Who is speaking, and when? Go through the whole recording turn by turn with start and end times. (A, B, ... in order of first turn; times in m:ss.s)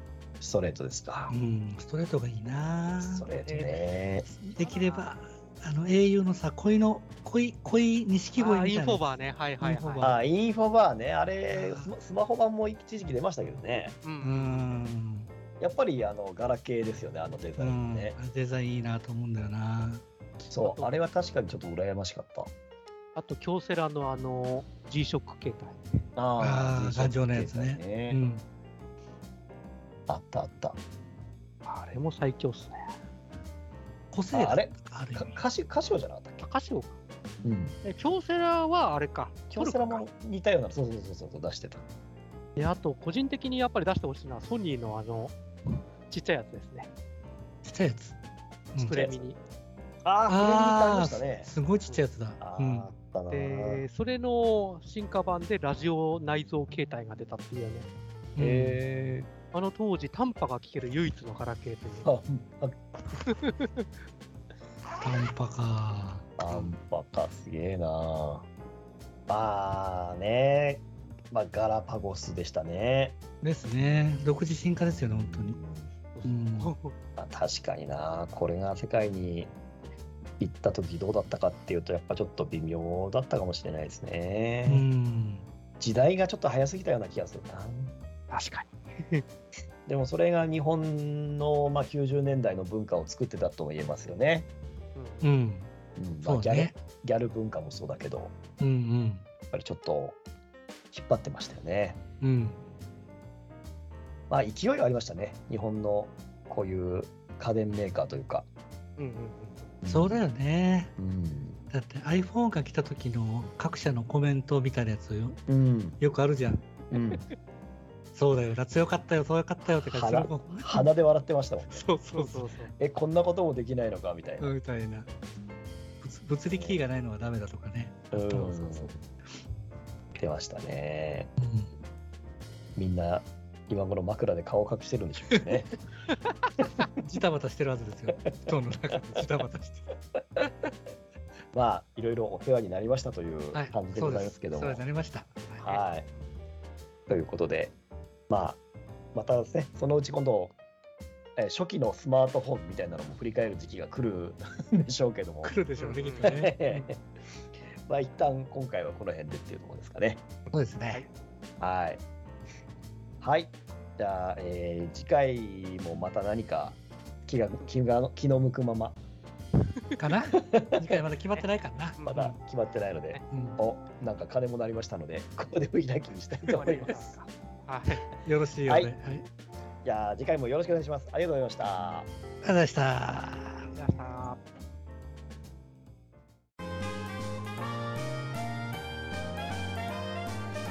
0:00.4-0:01.3 A
0:01.3-0:03.8 B
0:03.0-0:04.3 A
0:04.3-0:10.2 B
0:04.6-0:05.1 C
0:08.4-0:10.1 C
0:10.0-0:14.0 A
0:11.5-0:11.9 B
0:14.0-0:14.7 C
0:14.2-0:15.3 B
0:15.6-0:18.2 A
0:17.6-0:20.0 B
0:20.5-0:22.5 A
0:20.5-0:21.0 C
0:23.1-0:25.8 C
0:26.2-0:28.2 A
0:26.4-0:28.4 B
0:30.1-0:30.8 A
0:31.6-0:32.9 C
0:34.1-0:35.4 B
0:34.3-0:36.4 A
0:36.4-0:36.9 C
0:37.4-0:37.8 A
0:37.8-0:40.1 C
0:39.5-0:41.8 A
0:42.6-0:46.9 C
0:47.6-0:48.2 B
0:48.7-0:49.0 B
0:48.8-0:49.4 C
0:48.9-0:49.2 A
0:50.0-0:51.5 A
0:50.3-0:52.9 B
0:52.4-0:53.8 A
0:53.3-0:57.9 C
0:58.4-0:58.8 B
0:58.4-0:59.3 A
0:59.5-1:02.1 C
1:02.0-1:02.8 A
1:03.2-1:03.9 C
1:05.0-1:06.7 B
1:06.4-1:08.5 A
1:09.3-1:13.2 A
1:13.4-1:15.6 B
1:14.9-1:15.9 A
1:16.1-1:16.9 C
1:16.3-1:16.7 B
1:17.2-1:19.5 A
1:20.4-1:24.9 A
1:24.7-1:25.4 B
1:25.8-1:27.9 A
1:28.3-1:29.2 C
1:29.9-1:34.5 A
1:34.9-1:35.3 C
1:35.2-1:35.7 B
1:36.0-1:38.4 A
1:36.2-1:36.8 B
1:38.6-1:39.2 B
1:39.5-1:40.2 A
1:40.9-1:42.0 A
1:42.2-1:42.6 B
1:44.3-1:48.5 A
1:49.0-1:49.7 C
1:49.8-1:50.2 A
1:49.9-1:50.9 B
1:51.0-1:51.6 A
1:51.7-1:55.4 B
1:55.5-1:56.0 A
1:56.0-1:56.7 B
1:56.9-1:57.2 A
1:56.9-1:57.3 C
1:58.1-2:00.9 B
1:59.7-2:01.9 A
2:01.7-2:02.5 B
2:02.1-2:02.7 C
2:02.8-2:04.5 A
2:04.4-2:05.1 B
2:06.0-2:09.0 B
2:06.5-2:06.8 A
2:08.1-2:09.0 A
2:10.1-2:11.3 A
2:11.4-2:11.7 B
2:12.8-2:15.7 A
2:17.0-2:19.9 B
2:21.5-2:24.9 A
2:23.5-2:25.6 B
2:25.6-2:26.1 A
2:25.6-2:26.1 C
2:27.1-2:27.8 A
2:28.3-2:28.6 A
2:29.1-2:30.6 A
2:31.4-2:35.6 A
2:35.4-2:36.9 B
2:35.8-2:36.4 C
2:36.2-2:37.0 A
2:37.9-2:40.2 A
2:40.5-2:41.1 B
2:41.6-2:42.0 A
2:43.2-2:49.0 A
2:49.6-2:50.0 C
2:50.0-2:52.4 B
2:50.4-2:50.9 A
2:52.0-2:52.3 C
2:52.0-2:57.1 A
2:53.3-2:53.6 B
2:56.5-2:58.1 C
2:58.2-2:59.3 B
2:58.6-2:58.9 A
2:59.8-3:02.1 A
3:02.4-3:03.7 B
3:03.8-3:04.4 C